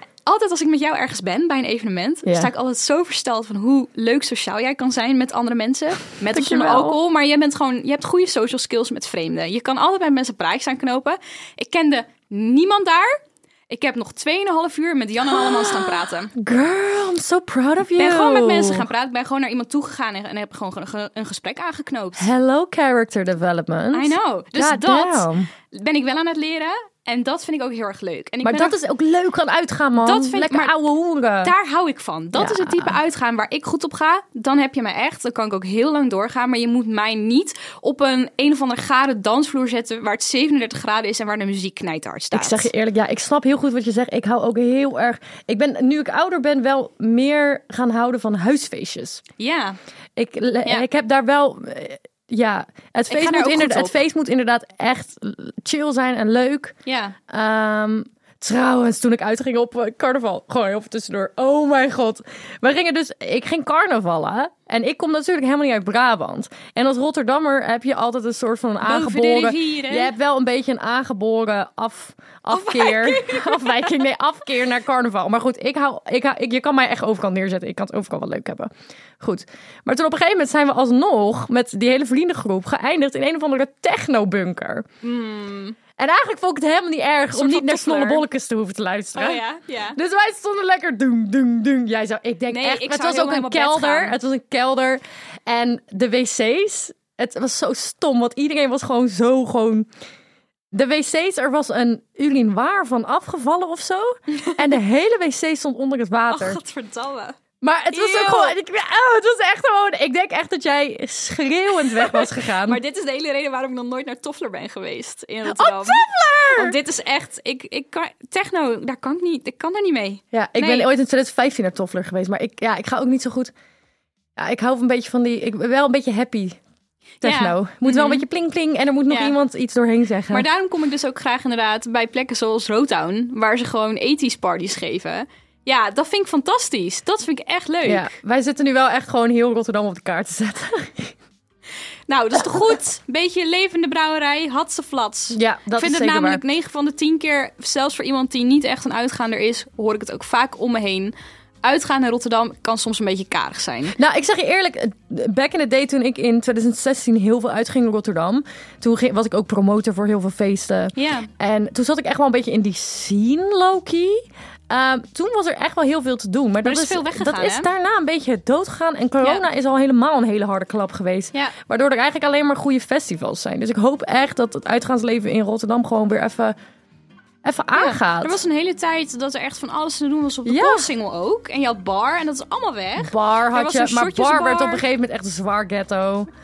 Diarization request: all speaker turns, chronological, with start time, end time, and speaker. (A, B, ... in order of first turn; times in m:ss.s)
0:00.2-0:13.1 A
0:02.2-0:02.5 B
0:06.3-0:07.0 B
0:13.7-0:16.3 A
0:15.2-0:18.9 B
0:17.9-0:22.3 A
0:22.2-0:25.5 B
0:23.9-0:28.7 A
0:28.4-0:31.5 B
0:30.0-0:30.8 A
0:31.4-0:42.7 A
0:32.3-0:33.0 B
0:42.3-0:49.2 B
0:49.4-0:49.8 A
0:50.2-0:56.7 B
0:53.1-0:54.0 A
0:56.8-0:57.2 A
0:57.3-1:24.8 B
1:08.8-1:10.1 A
1:12.5-1:14.0 A
1:25.0-1:25.8 A
1:26.0-1:29.4 B
1:27.3-1:28.2 A
1:29.1-1:30.0 A
1:30.0-1:39.9 B
1:32.5-1:34.2 A
1:40.7-1:46.6 B
1:46.3-1:47.4 A
1:47.6-1:52.8 B
1:47.9-1:48.6 A
1:51.8-2:00.9 A
1:55.4-1:56.8 B
2:00.3-2:03.5 B
2:04.4-2:06.6 B
2:07.2-2:10.4 B
2:07.2-2:08.2 A
2:09.1-2:09.4 A
2:10.3-2:18.1 A
2:17.8-2:21.1 B
2:22.1-2:34.0 A
2:25.3-2:26.4 B
2:34.0-2:56.5 B
2:40.9-2:41.3 A
2:46.6-2:47.7 A
2:57.4-2:58.4 B
2:57.7-3:04.8 A
3:00.4-3:00.9 B
3:03.0-3:06.3 B